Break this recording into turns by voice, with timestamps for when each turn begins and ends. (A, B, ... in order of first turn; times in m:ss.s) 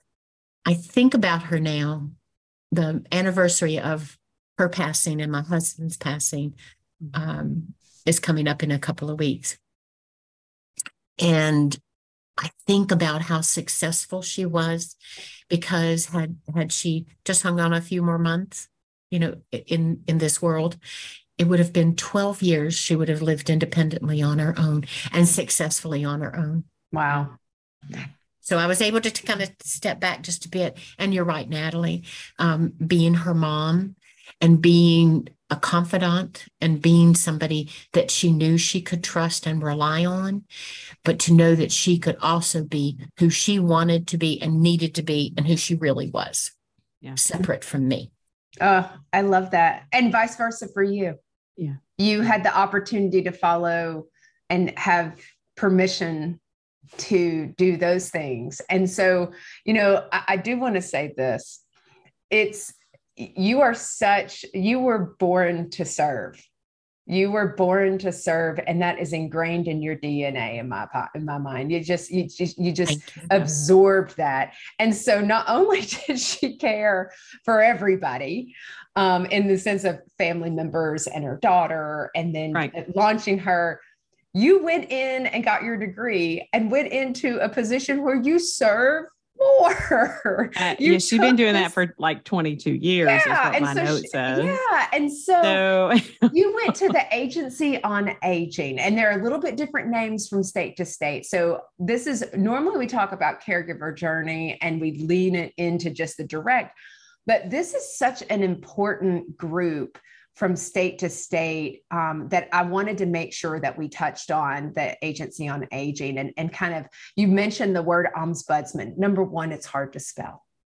0:00.7-0:02.1 A
0:02.7-0:06.6 A
0:07.1-0:09.6 A
0:11.2-0:11.8 A
0:12.4-0:15.0 A
0:15.5-0:20.8 A
0:21.4-0:26.7 A
0:26.9-0:27.4 B
0:28.4-0:40.4 A
0:41.0-0:46.5 A
0:47.2-0:48.1 A
0:48.6-0:51.2 B
0:52.0-0:56.4 B
0:57.0-1:01.6 B
1:02.3-1:06.4 B
1:07.1-1:23.8 B
1:12.9-1:13.3 A
1:24.3-1:31.7 B
1:30.6-1:34.6 C
1:33.0-1:35.6 B
1:35.4-1:36.8 C
1:36.3-1:46.8 B
1:47.3-2:00.4 B